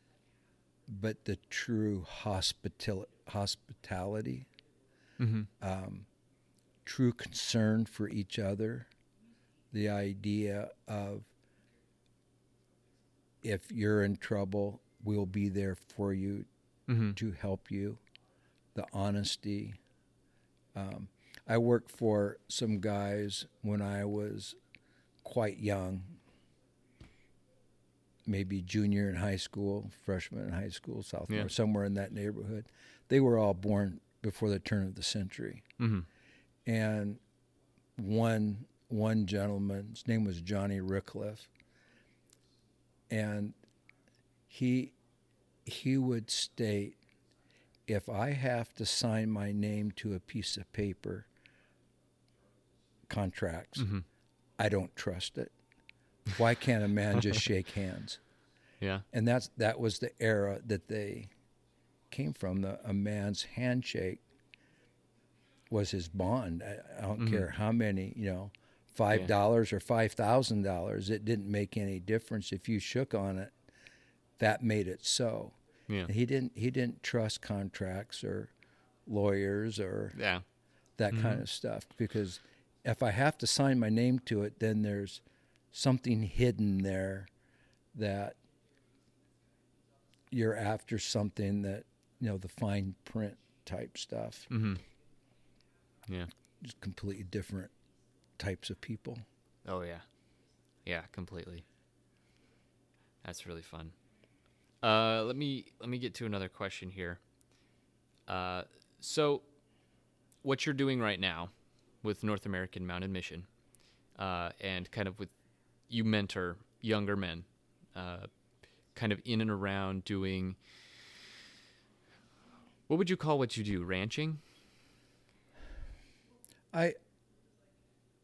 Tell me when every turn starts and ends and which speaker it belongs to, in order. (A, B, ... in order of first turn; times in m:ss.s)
0:00.9-0:04.5 A
0:05.2-0:05.5 B
0:05.6-0:06.1 A
0:06.8-0:08.9 A
0:09.7-0:11.3 A
0:13.4-0:16.5 A
0:16.9-0:17.2 B
0:17.2-0:18.0 A
0:18.8-0:19.8 A
0:20.8-0:24.6 A
0:25.2-0:26.2 A
0:28.3-0:35.6 A
0:35.8-0:36.1 B
0:36.6-0:37.2 A
0:38.0-0:41.5 A
0:43.1-0:43.6 A
0:44.5-0:45.0 A
0:45.6-0:47.0 A
0:47.9-0:51.3 A
0:53.1-0:53.9 A
0:53.8-0:54.0 B
0:54.6-0:55.5 A
0:56.3-0:58.2 A
0:59.1-1:01.3 A
1:02.1-1:04.2 A
1:05.7-1:13.5 A
1:07.2-1:07.4 B
1:14.4-1:15.6 A
1:16.1-1:18.5 A
1:19.1-1:20.2 A
1:20.1-1:20.4 B
1:21.0-1:25.2 A
1:21.1-1:21.4 B
1:25.7-1:27.3 A
1:27.9-1:28.4 A
1:30.3-1:34.5 A
1:34.5-1:34.8 B
1:36.6-1:37.7 A
1:38.4-1:39.2 A
1:39.6-1:40.0 B
1:40.9-1:41.6 B
1:43.2-1:44.0 B
1:44.8-1:47.2 B
1:48.3-1:49.4 B
1:50.4-1:51.5 B
1:52.0-1:53.5 B
1:54.2-1:55.3 B
1:55.9-1:58.3 B
1:59.0-2:00.6 B
2:02.9-2:04.4 B